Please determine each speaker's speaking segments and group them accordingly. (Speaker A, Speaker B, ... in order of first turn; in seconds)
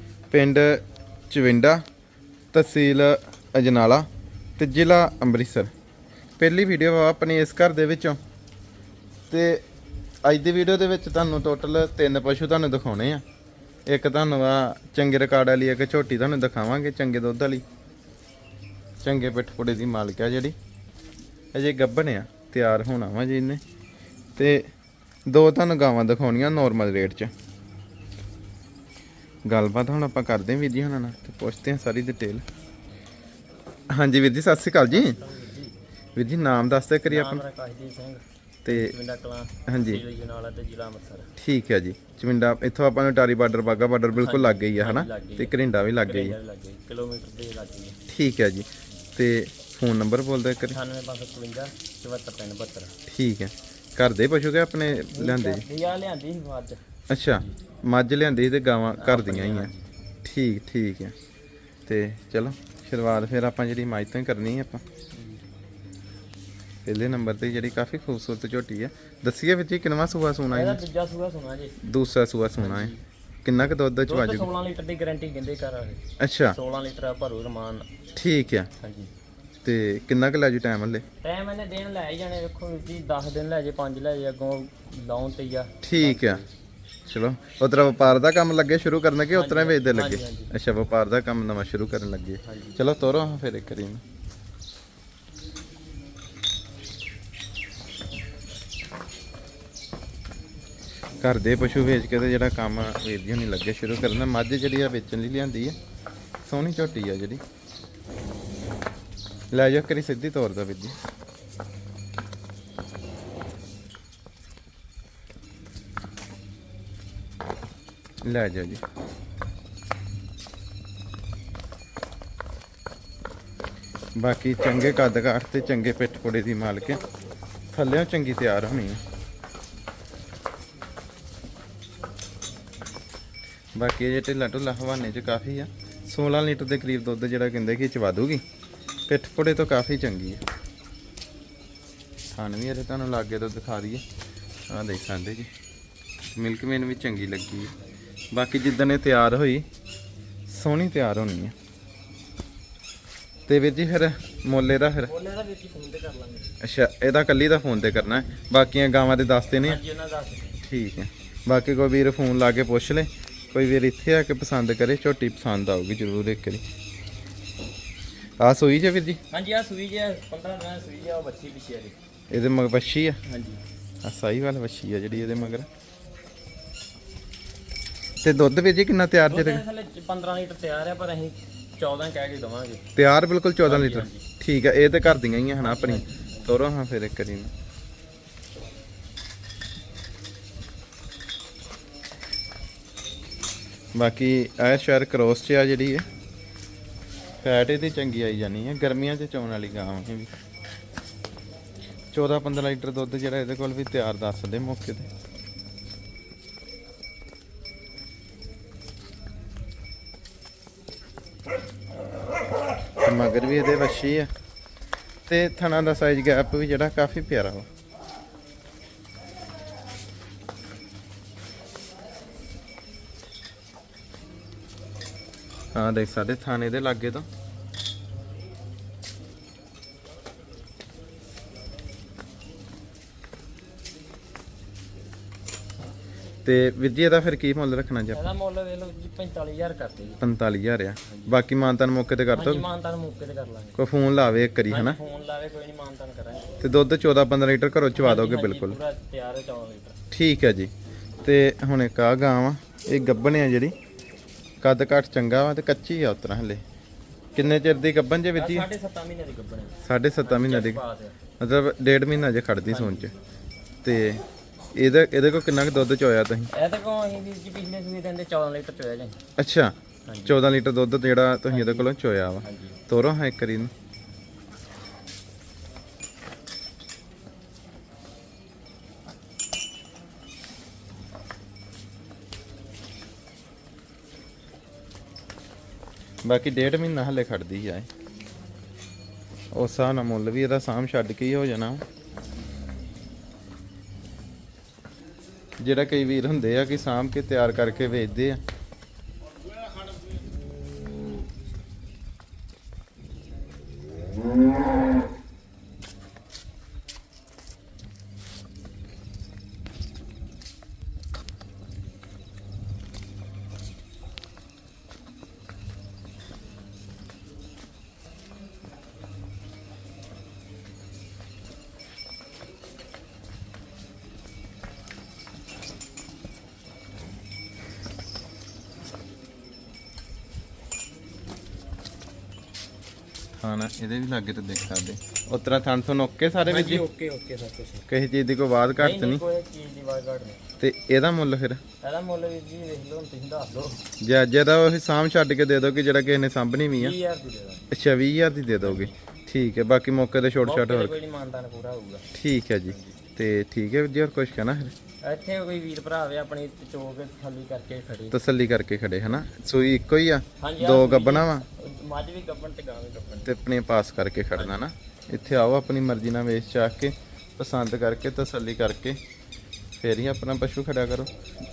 Speaker A: 0.3-1.8, 2.5-4.1, 4.6-5.7, 6.4-8.2, 9.3-9.6, 10.2-13.2, 13.9-17.6, 19.0-20.5, 21.5-23.6, 24.4-24.7, 25.3-27.3, 29.5-32.4, 33.9-35.2, 36.2-37.4, 38.6-38.9, 39.7-40.0, 41.4-46.4, 48.1-50.8, 53.1-55.6, 57.1-59.7, 60.2-61.1, 61.9-64.8, 66.8-70.8, 71.8-72.9, 73.4-74.5, 76.2-76.6, 78.1-78.7, 79.6-81.0, 85.8-86.4, 87.1-94.0, 101.2-105.8, 106.4-107.4, 109.5-111.0, 118.2-118.8, 124.2-127.0, 127.7-129.0, 133.8-138.4, 139.1-140.4, 142.3-144.0, 144.7-145.5, 146.3-147.7, 148.3-149.7, 150.5-151.6, 153.5-155.1, 156.6-159.8, 160.6-166.6, 168.4-169.2, 172.3-173.2, 174.0-175.7, 178.2-179.6, 182.9-187.5, 193.9-196.1, 197.4-200.3, 202.1-205.1, 213.0-214.3, 215.3-217.7, 225.8-227.2, 236.4-238.2, 240.2-242.6, 243.8-245.0, 246.6-248.8, 250.1-250.7, 251.2-253.8, 254.6-256.6, 257.4-258.7, 259.8-260.8, 261.4-263.1, 263.8-264.2, 264.8-266.5, 269.4-273.7, 286.2-287.9, 289.5-291.8, 295.6-298.4, 333.4-336.9, 337.9-339.2, 340.6-341.6, 344.0-346.9, 347.7-350.9, 352.1-354.7, 358.1-361.5, 363.2-369.0, 369.8-371.1
Speaker B: 34.9-35.7, 37.0-41.3, 44.1-45.5, 46.0-48.0, 50.7-52.9, 54.8-56.8, 59.0-59.8, 70.5-71.8, 72.6-73.0, 74.0-77.9, 78.8-79.1, 81.2-86.5, 89.3-90.5, 92.4-92.8, 155.1-156.6, 159.5-160.6, 169.3-171.9, 173.2-173.6, 179.3-182.8, 183.6-184.2, 185.6-186.5, 238.1-240.2, 241.1-241.4, 242.3-243.8, 244.7-246.6, 248.0-250.0, 258.4-261.2, 262.7-263.1, 266.5-269.2, 270.1-270.4, 271.5-271.9, 272.4-272.8, 336.5-337.8, 338.8-340.4, 341.8-343.8, 346.8-347.7, 348.6-348.9, 350.4-352.1, 352.7-353.0, 355.0-358.2, 360.4-363.3